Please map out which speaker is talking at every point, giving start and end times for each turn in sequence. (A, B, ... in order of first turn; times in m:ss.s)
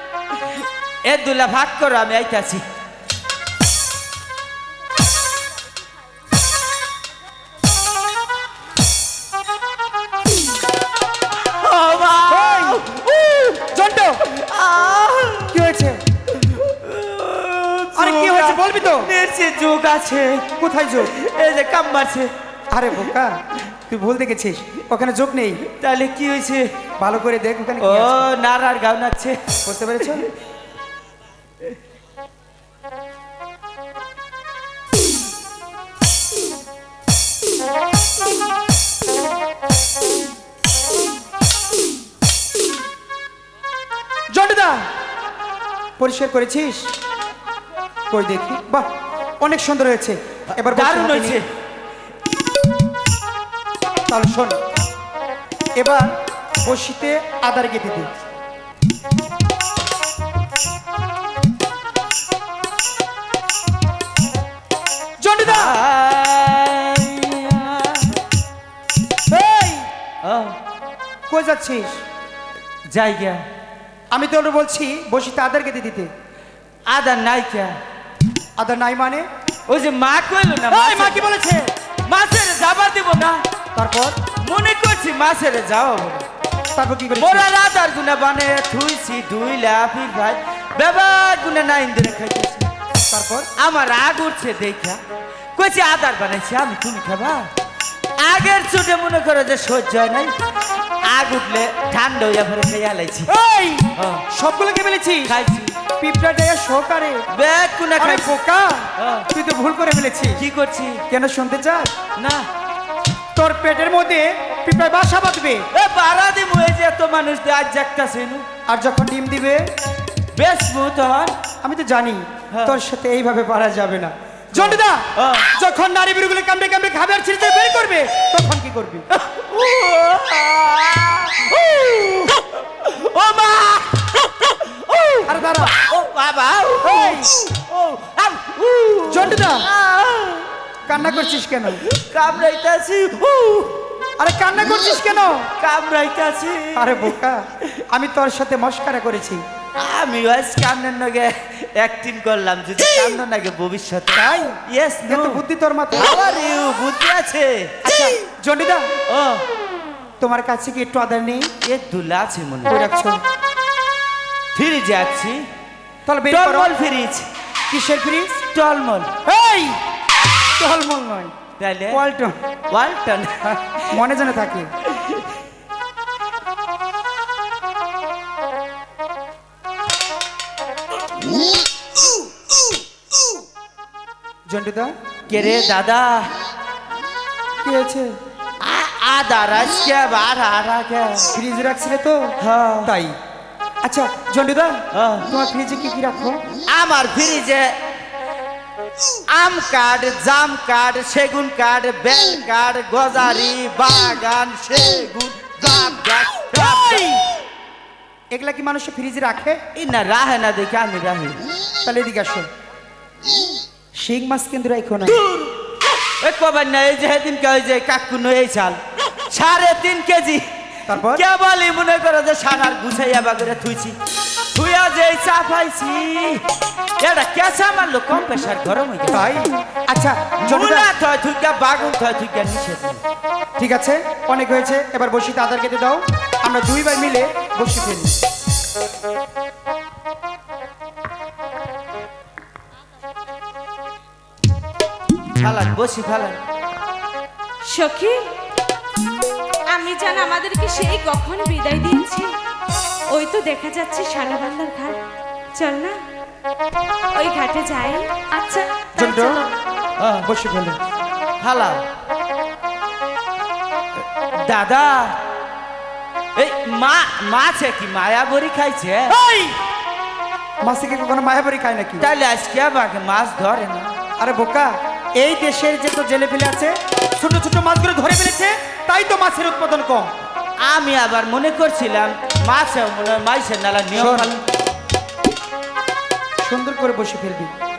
0:01.0-0:02.6 A
0:11.4-0:13.6 A
0:12.3-0:12.8 B
0:13.7-0:14.2 B
0:14.2-0:15.6 A
0:15.5-0:16.0 B
0:16.3-0:20.5 A
0:18.0-0:19.1 B
0:20.6-0:21.1 B
0:21.0-0:22.3 A
0:22.7-0:25.6 B
0:25.6-0:26.7 A
0:27.0-0:28.3 B
0:27.8-0:29.4 A
0:29.6-0:30.3 B
0:44.3-0:44.9 B
0:46.0-0:46.9 B
0:48.1-0:48.9 B
0:49.4-0:51.4 B
0:50.5-0:51.4 A
0:54.1-0:54.6 B
0:55.8-0:56.1 B
0:56.6-0:58.1 B
1:05.2-1:05.8 B
1:05.4-1:08.2 A
1:09.3-1:09.9 B
1:10.2-1:10.6 A
1:11.3-1:12.0 B
1:12.9-1:13.4 A
1:14.1-1:16.1 B
1:16.9-1:17.8 A
1:18.6-1:19.2 B
1:19.7-1:21.3 A
1:20.7-1:21.7 B
1:22.1-1:23.4 A
1:23.8-1:24.2 B
1:24.4-1:26.2 A
1:26.8-1:27.5 B
1:27.2-1:32.7 A
1:33.1-1:33.5 B
1:33.6-1:35.0 A
1:35.6-1:37.5 A
1:38.2-1:40.3 A
1:41.0-1:43.3 A
1:43.3-1:45.3 B
1:43.9-1:44.2 A
1:45.2-1:45.8 A
1:46.0-1:47.2 B
1:47.3-1:48.3 A
1:48.0-1:50.4 B
1:49.0-1:49.3 A
1:50.4-1:51.0 A
1:51.1-1:51.9 B
1:52.2-1:52.4 A
1:53.4-1:55.6 B
1:55.7-1:58.4 A
1:58.7-1:59.6 B
2:00.3-2:01.3 A
2:01.6-2:05.0 B
2:02.5-2:02.8 A
2:04.6-2:05.5 A
2:05.5-2:09.1 B
2:09.1-2:20.5 A
2:15.3-2:15.7 B
2:16.8-2:17.3 B
2:19.1-2:19.6 B
2:20.9-2:21.8 B
2:21.8-2:23.8 A
2:24.2-2:25.5 B
2:25.6-2:27.2 A
2:26.8-2:29.4 B
2:29.8-2:37.8 A
2:34.1-2:36.1 B
2:37.8-2:38.9 B
2:39.1-2:39.4 A
2:40.2-2:41.5 B
2:41.6-2:42.8 A
2:42.7-2:43.2 B
2:44.6-2:45.4 A
2:46.1-2:46.8 B
2:46.3-2:47.3 A
2:47.7-2:48.4 B
2:48.5-2:49.1 A
2:49.2-2:49.8 B
2:50.6-2:51.3 B
2:51.6-2:52.0 A
2:51.9-2:52.4 B
2:52.7-2:54.0 A
2:53.8-2:54.7 B
3:04.5-3:04.9 B
3:05.3-3:06.3 A
3:07.6-3:08.1 B
3:08.6-3:11.3 A
3:11.3-3:13.2 B
3:12.4-3:12.9 A
3:13.8-3:16.4 B
3:14.9-3:15.3 A
3:16.7-3:17.8 A
3:19.3-3:27.2 A
3:26.5-3:27.2 B
3:28.3-3:29.6 B
3:29.7-3:31.4 A
3:31.8-3:32.5 B
3:34.0-3:35.2 B
3:36.2-3:40.4 A
3:40.9-3:41.2 B
3:41.0-3:43.9 A
3:44.5-3:46.4 A
3:47.0-3:49.4 A
3:49.1-3:50.9 B
3:50.4-3:53.0 A
3:53.6-3:58.1 B
4:05.4-4:06.4 A
4:07.7-4:08.3 C
4:09.7-4:12.3 C
4:13.1-4:15.0 C
4:15.6-4:16.0 C
4:17.1-4:19.5 C
4:19.0-4:19.5 B
4:20.0-4:20.3 A
4:20.2-4:20.8 B
4:21.4-4:21.8 A
4:24.3-4:25.2 A
4:26.4-4:29.2 A
4:29.1-4:29.6 B
4:30.6-4:32.1 B
4:32.0-4:33.9 A
4:34.2-4:40.1 B
4:40.6-4:44.4 A
4:43.9-4:44.3 B
4:46.4-4:47.5 B